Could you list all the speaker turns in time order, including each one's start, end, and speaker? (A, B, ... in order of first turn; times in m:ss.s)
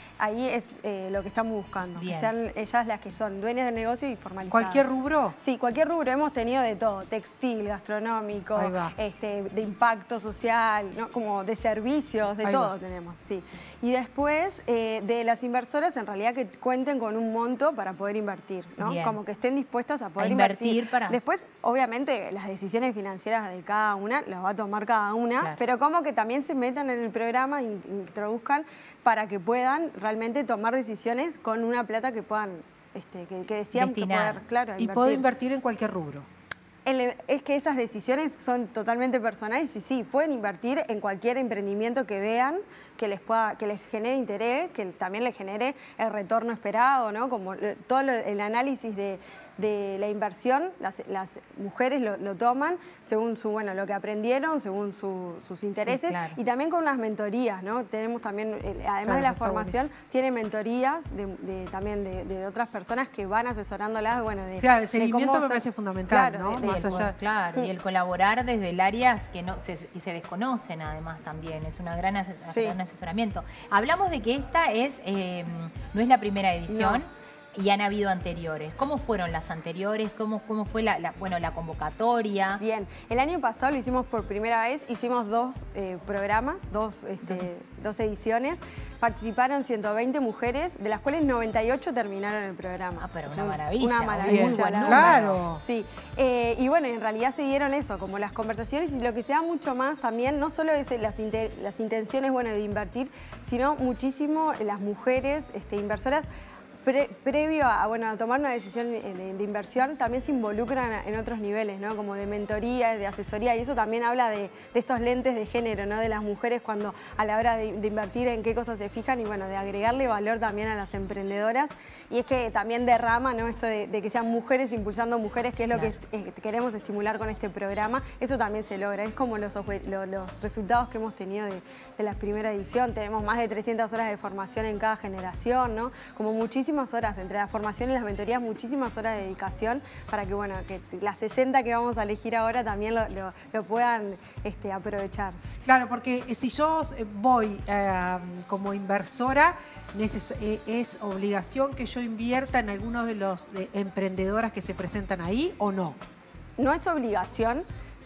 0:00.2-0:35.2 A
0:01.9-0:02.3 B
0:04.5-0:05.3 C
0:08.6-0:08.9 C
0:12.4-0:12.7 C
0:18.8-0:19.2 B
0:20.2-0:21.2 B
0:33.7-0:34.4 B
0:34.8-0:36.3 C
0:36.8-1:07.7 A
0:55.8-0:56.4 B
0:59.0-0:59.8 C
1:04.6-1:07.1 C
1:06.6-1:22.6 B
1:12.5-1:12.8 A
1:16.7-1:17.0 A
1:22.6-1:46.2 A
1:33.0-1:35.4 B
1:34.2-1:35.6 C
1:46.8-2:25.4 A
2:25.6-2:36.0 C
2:36.6-2:37.6 A